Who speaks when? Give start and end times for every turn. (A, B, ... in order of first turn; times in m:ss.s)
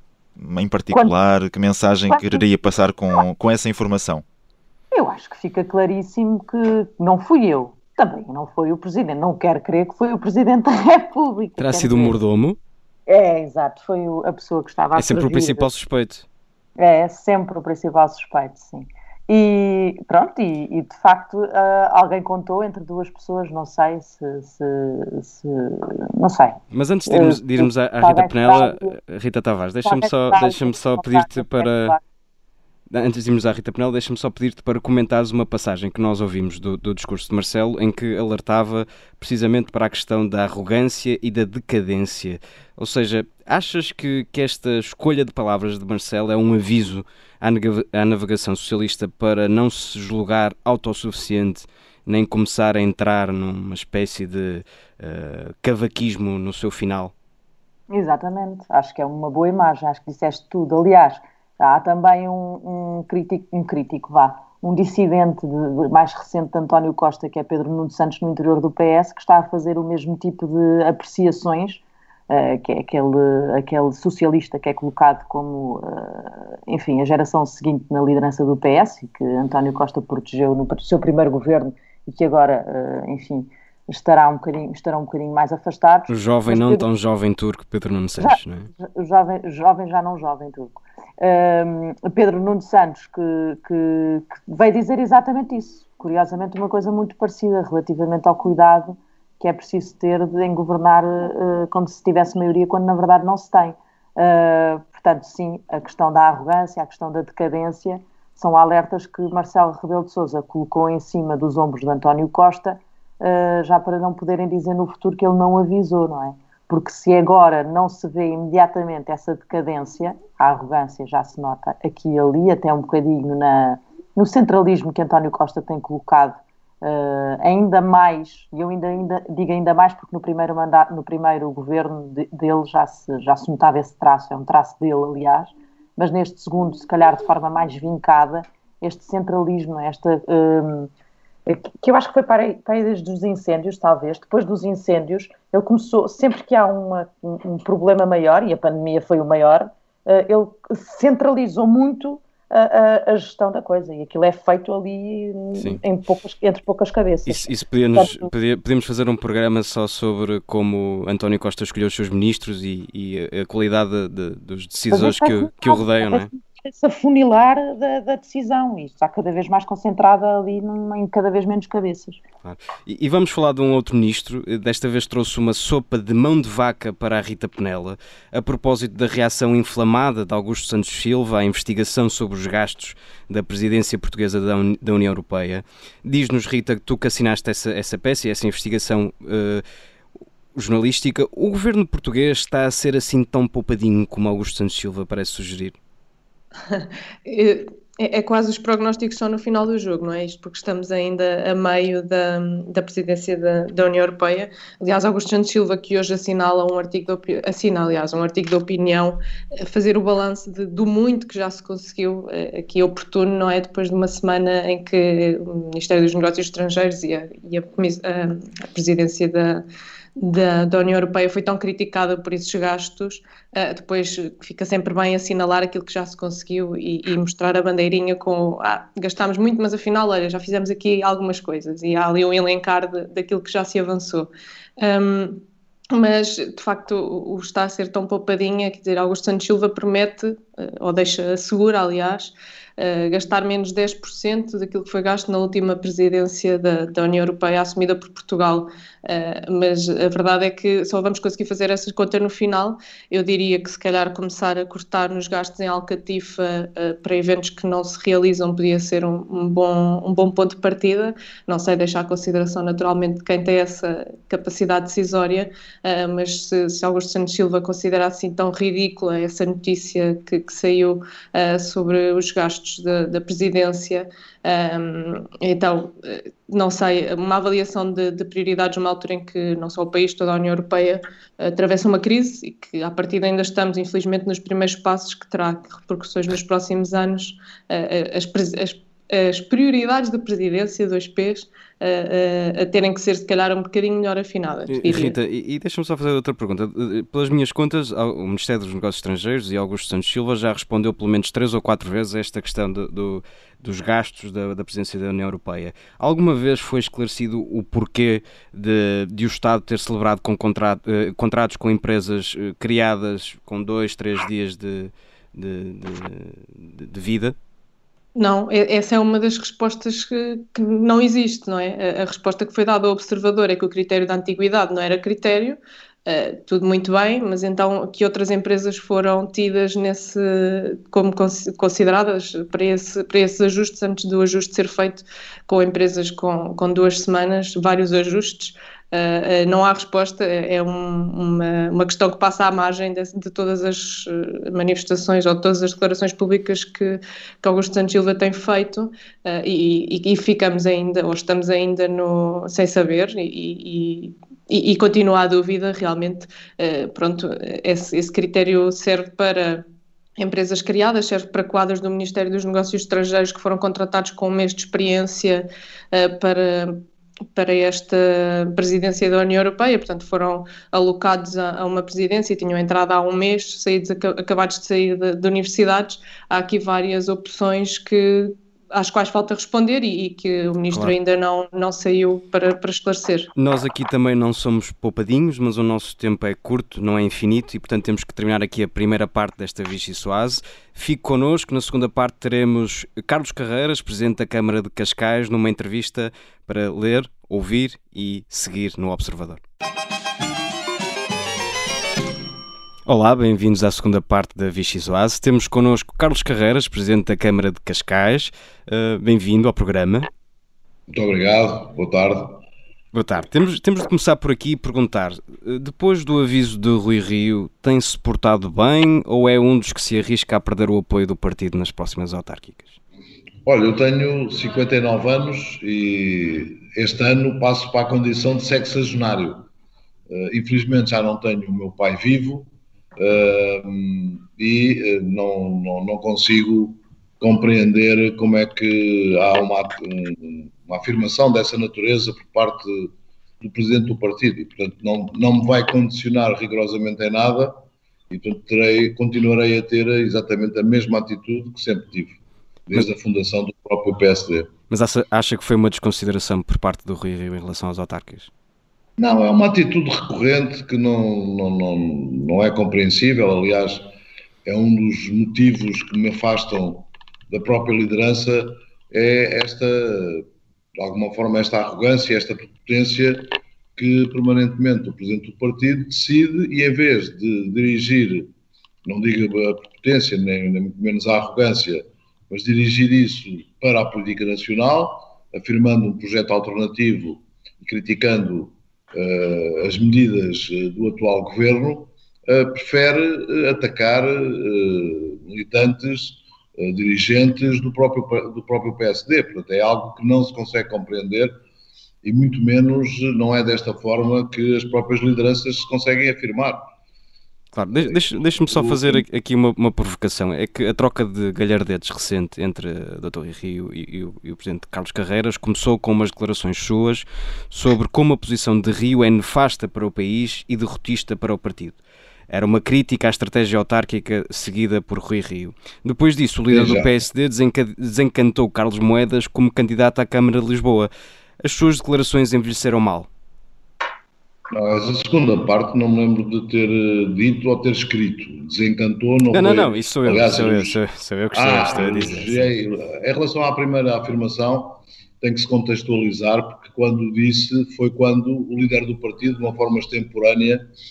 0:00.4-0:04.2 A
0:02.1-0:02.4 B
0:04.9-0:12.2 B
0:11.6-0:12.6 C
0:13.1-0:15.7 B
0:15.0-0:16.3 C
0:16.8-0:29.0 B
0:26.7-0:32.0 C
0:29.8-0:32.0 B
0:32.9-0:57.1 C
0:57.9-1:26.8 B
1:26.1-1:28.7 C
1:28.2-2:20.9 B
2:21.5-2:38.3 B
2:37.3-2:46.3 C
2:44.9-2:52.2 B
2:52.4-3:09.6 C
3:10.6-3:15.8 C
3:16.7-3:39.7 D
3:40.2-4:55.2 D
4:54.7-5:17.4 C
5:18.2-5:59.6 D
6:00.2-6:06.8 D
6:07.3-6:23.3 D
6:23.4-6:39.4 C
6:42.9-6:50.1 C
6:50.9-6:52.4 E
6:52.9-7:02.8 C
7:03.4-7:09.5 E
7:10.1-7:34.5 E
7:34.7-7:38.3 C
7:39.0-7:43.9 E
7:44.4-7:58.3 E
7:58.8-8:21.4 E
8:22.0-8:26.6 E
8:27.5-8:41.8 C
8:27.7-8:29.0 E
8:42.3-8:50.9 C
8:46.5-8:46.9 E
8:51.4-8:53.1 C
8:54.5-9:00.8 E
8:59.3-9:02.5 C
9:01.3-9:10.6 E